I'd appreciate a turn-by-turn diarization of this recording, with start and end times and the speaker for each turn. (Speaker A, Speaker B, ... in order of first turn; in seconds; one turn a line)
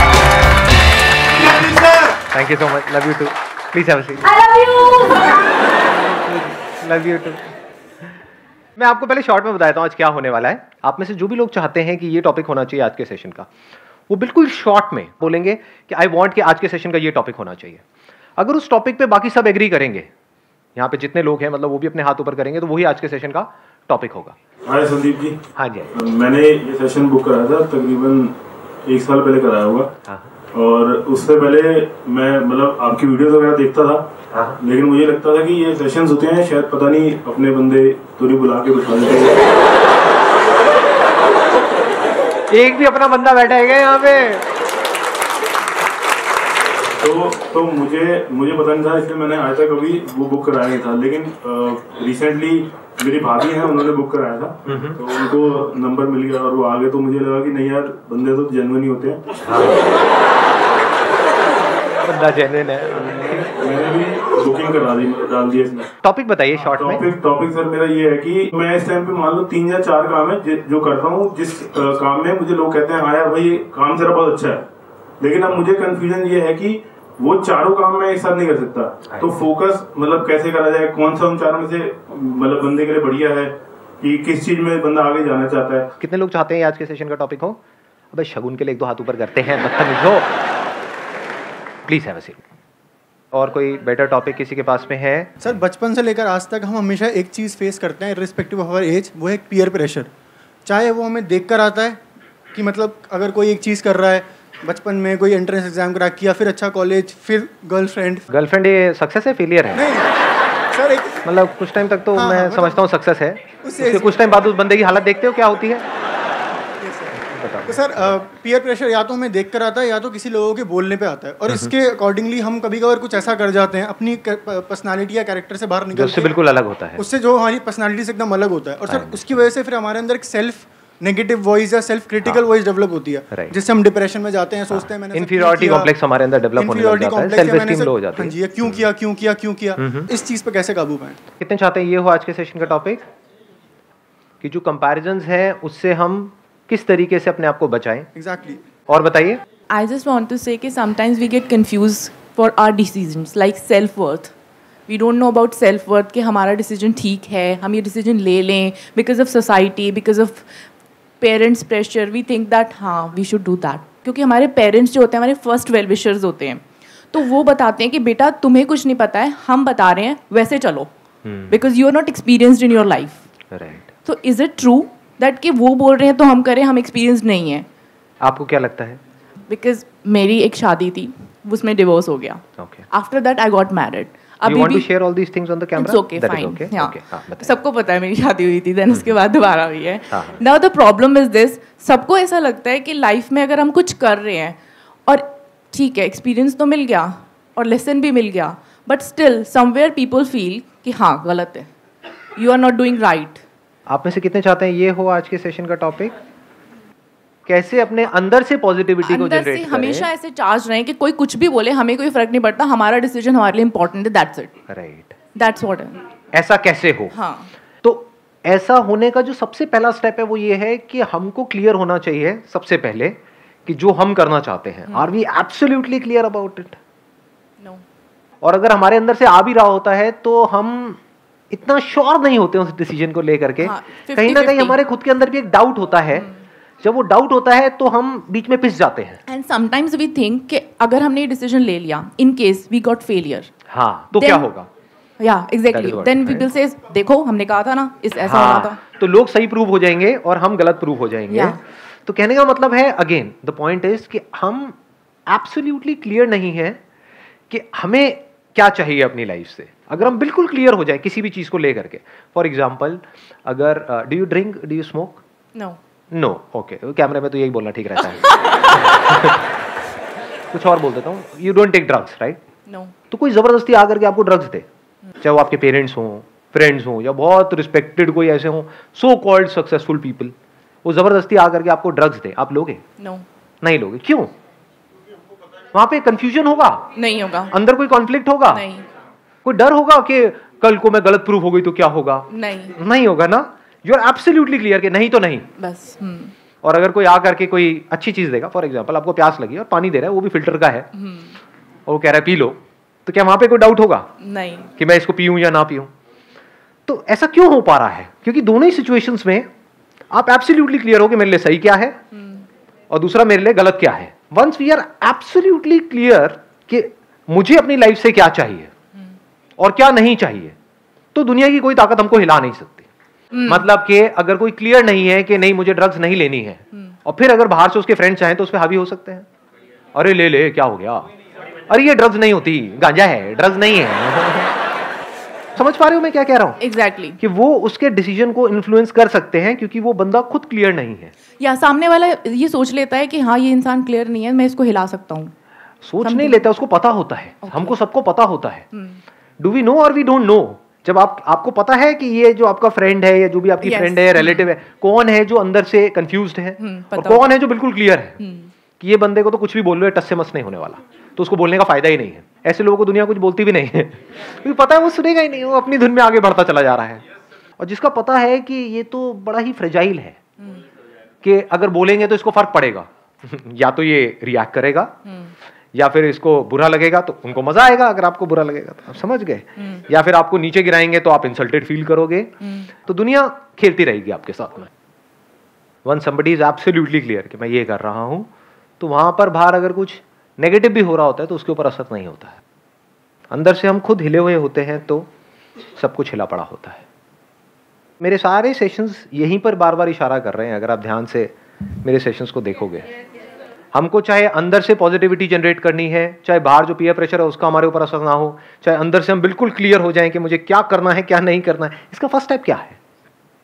Speaker A: 1.4-7.5
Speaker A: 8.8-13.5
Speaker A: 14.1-17.8
Speaker A: 18.4-20.1
Speaker A: 20.8-24.4
Speaker B: 24.6-25.4
Speaker A: 25.6-25.9
Speaker B: 25.9-28.3
Speaker B: 28.9-29.9
Speaker A: 30.0-30.4
Speaker B: 30.5-34.0
Speaker A: 34.3-34.6
Speaker B: 34.6-39.6
Speaker A: 42.5-44.5
Speaker B: 47.0-59.2
Speaker A: 54.6-55.0
Speaker A: 59.5-60.0
Speaker A: 62.0-63.5
Speaker B: 63.2-65.9
Speaker A: 66.0-67.1
Speaker B: 66.7-74.6
Speaker B: 75.2-85.9
Speaker A: 86.0-87.6
Speaker A: 88.1-90.3
Speaker A: 91.9-92.4
Speaker A: 93.3-95.3
Speaker C: 95.4-100.1
Speaker C: 100.7-102.0
Speaker C: 102.5-108.3
Speaker A: 108.3-109.9
Speaker C: 109.7-110.2
Speaker C: 110.7-111.2
Speaker A: 111.2-115.9
Speaker C: 112.1-112.8
Speaker C: 113.6-114.3
Speaker C: 116.8-126.3
Speaker A: 117.2-118.2
Speaker A: 125.9-127.0
Speaker C: 127.0-135.9
Speaker A: 128.9-129.2
Speaker A: 134.7-138.8
Speaker C: 136.6-141.2
Speaker A: 139.8-140.1
Speaker A: 141.4-143.0
Speaker A: 144.4-148.1
Speaker C: 148.2-148.6
Speaker A: 148.9-149.4
Speaker D: 149.7-154.3
Speaker D: 154.9-160.5
Speaker D: 161.2-170.9
Speaker A: 171.2-171.5
Speaker D: 171.5-173.2
Speaker A: 173.5-173.9
Speaker D: 174.1-177.7
Speaker A: 178.2-179.0
Speaker D: 179.5-184.9
Speaker A: 182.6-182.8
Speaker A: 184.4-187.6
Speaker D: 185.8-201.7
Speaker D: 202.4-203.4
Speaker A: 203.9-206.2
Speaker A: 207.5-210.1
Speaker D: 209.0-214.6
Speaker A: 214.7-215.1
Speaker D: 215.3-216.1
Speaker A: 216.3-217.1
Speaker D: 217.1-217.5
Speaker A: 217.8-226.8
Speaker A: 228.4-236.3
Speaker D: 233.6-234.8
Speaker A: 236.8-239.2
Speaker D: 239.3-243.5
Speaker A: 243.7-244.7
Speaker D: 244.1-244.5
Speaker D: 245.2-248.8
Speaker A: 245.7-246.5
Speaker A: 248.2-256.8
Speaker D: 251.3-251.6
Speaker A: 257.5-265.2
Speaker A: 266.1-269.5
Speaker A: 270.5-272.4
Speaker D: 272.7-272.9
Speaker A: 273.1-274.7
Speaker A: 275.2-282.8
Speaker D: 283.0-283.2
Speaker A: 283.6-284.3
Speaker A: 285.7-286.9
Speaker D: 286.9-287.6
Speaker A: 287.5-288.7
Speaker D: 288.5-288.9
Speaker A: 289.4-295.5
Speaker D: 292.3-292.8
Speaker D: 295.6-296.3
Speaker A: 296.6-300.9
Speaker D: 301.0-301.4
Speaker A: 301.9-304.1
Speaker D: 304.2-304.7
Speaker A: 304.8-305.9
Speaker A: 306.9-309.5
Speaker A: 310.1-312.0
Speaker D: 312.1-312.4
Speaker A: 312.9-318.7
Speaker A: 319.6-320.6
Speaker A: 321.1-322.9
Speaker D: 323.3-323.6
Speaker A: 323.5-329.3
Speaker A: 329.9-331.1
Speaker A: 331.7-334.6
Speaker A: 335.6-336.6
Speaker D: 336.6-337.2
Speaker A: 337.2-341.1
Speaker D: 341.4-345.3
Speaker A: 345.8-348.7
Speaker D: 346.0-346.4
Speaker D: 347.4-347.8
Speaker D: 348.8-349.0
Speaker A: 349.4-358.2
Speaker D: 353.6-354.5
Speaker D: 356.6-357.3
Speaker D: 358.2-358.5
Speaker A: 358.8-367.0
Speaker A: 367.6-370.2
Speaker A: 371.2-375.0
Speaker A: 375.7-384.7
Speaker A: 385.9-392.4
Speaker A: 393.3-395.1
Speaker A: 395.8-396.9
Speaker A: 398.0-402.9
Speaker A: 403.7-412.8